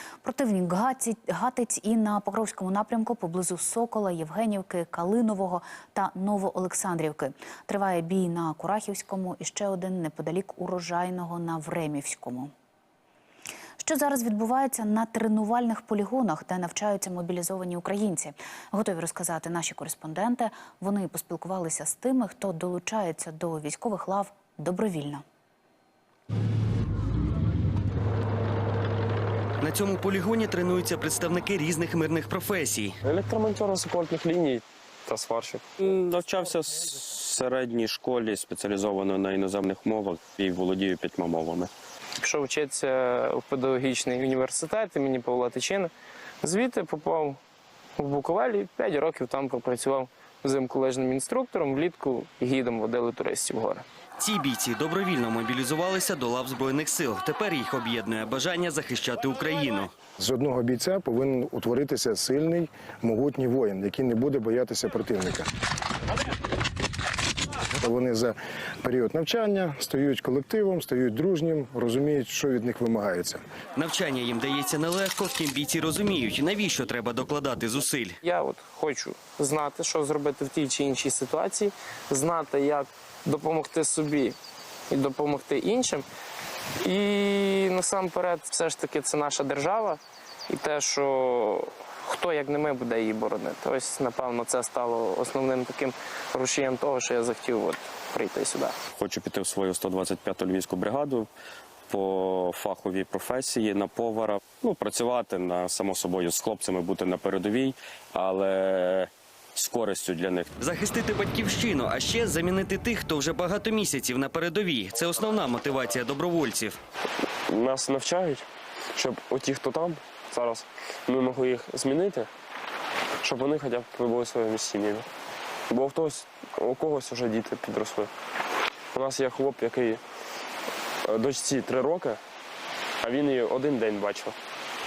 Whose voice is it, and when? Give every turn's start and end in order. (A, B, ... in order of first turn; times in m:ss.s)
0:00.2-0:12.5 A
0:13.8-0:25.2 A
0:29.6-0:33.0 B
0:33.0-0:35.7 C
0:35.8-0:41.7 D
0:42.2-0:45.9 E
0:46.4-0:47.4 E
0:48.0-0:53.8 E
0:54.2-0:59.9 B
1:00.2-1:05.5 F
1:07.8-1:13.4 F
1:13.8-1:18.2 B
1:18.2-1:24.4 E
1:24.9-1:26.1 E
1:26.8-1:38.8 E
1:39.0-1:41.3 D
1:41.9-1:50.5 D
1:50.6-1:56.8 B
1:57.5-2:02.3 C
2:03.2-2:05.1 C
2:05.7-2:08.1 C
2:08.9-2:10.0 C
2:11.0-2:12.2 C
2:13.0-2:14.4 C